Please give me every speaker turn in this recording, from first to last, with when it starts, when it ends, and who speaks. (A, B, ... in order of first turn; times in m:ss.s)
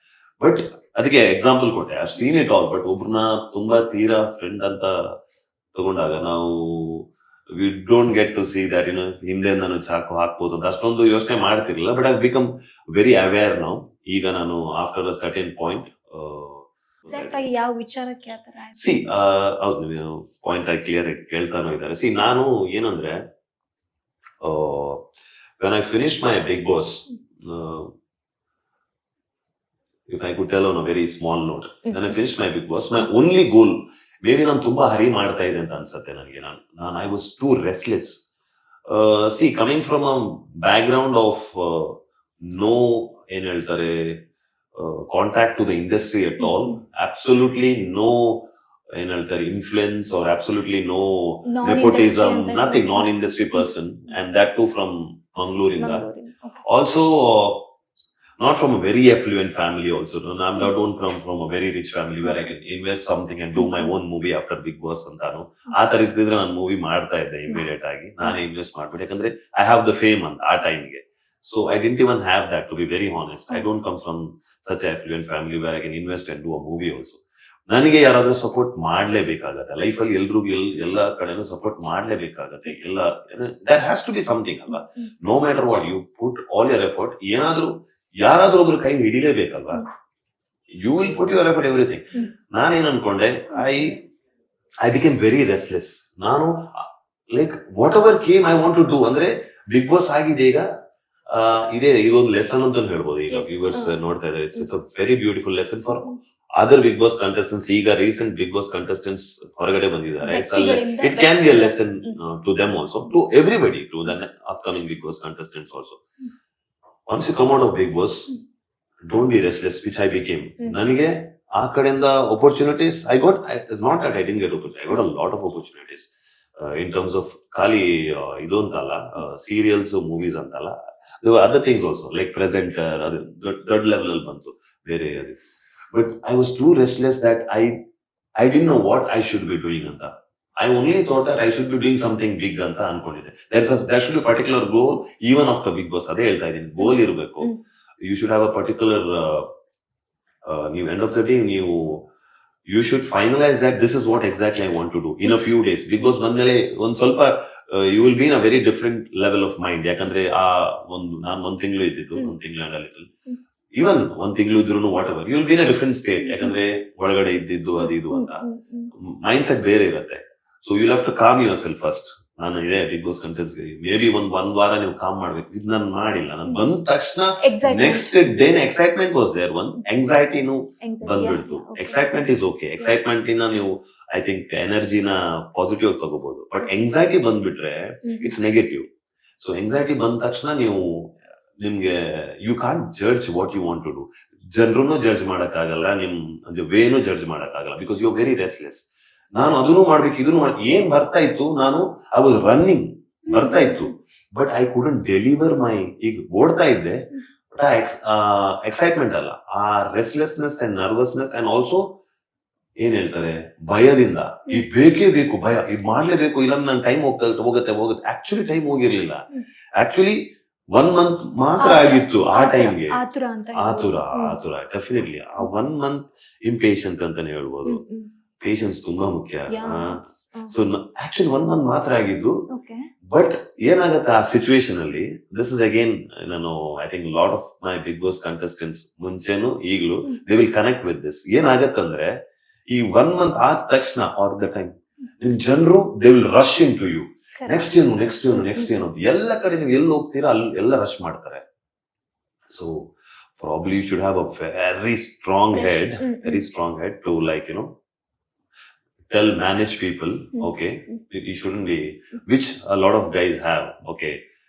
0:00.4-0:05.2 A
0:05.7-0:17.4 A
0:17.1-0:19.0 B
0:18.8-0:23.2 A
0:24.4-0:25.0 A
0:25.6-0:27.9 A
0:30.1-0:38.3 A
0:31.8-0:32.2 B
0:38.9-0:56.1 A
0:46.4-0:46.8 B
0:51.4-0:53.6 B
0:55.8-0:56.6 B
0:56.6-0:57.7 A
0:58.4-1:29.8 A
1:02.2-1:02.5 B
1:03.5-1:03.9 B
1:30.7-1:34.0 A
1:34.8-1:40.7 A
1:41.3-1:56.0 A
1:43.3-1:44.0 B
1:50.2-1:52.2 B
1:57.1-1:58.3 A
1:59.1-2:17.8 A
2:18.4-2:29.5 A
2:26.8-2:27.6 B
2:30.4-2:32.1 A
2:32.7-2:43.1 A
2:43.7-2:48.4 A
2:46.2-2:46.6 B
2:47.8-2:48.9 B
2:49.0-3:08.9 A
2:57.4-2:58.1 B
3:00.8-3:02.0 B
3:08.0-3:08.3 B
3:09.4-3:32.0 A
3:23.3-3:23.9 B
3:32.8-3:39.2 A
3:39.8-3:43.0 A
3:41.6-3:44.4 B
3:43.5-3:47.8 A
3:47.6-3:48.1 B
3:48.4-3:52.4 A
3:49.5-3:50.6 B
3:52.5-3:52.8 B
3:53.1-4:02.2 A
4:02.7-4:11.4 A
4:07.4-4:07.7 B
4:08.3-4:08.8 B
4:12.5-4:17.7 A
4:15.5-4:16.4 B
4:19.1-4:24.2 A
4:20.3-4:21.0 B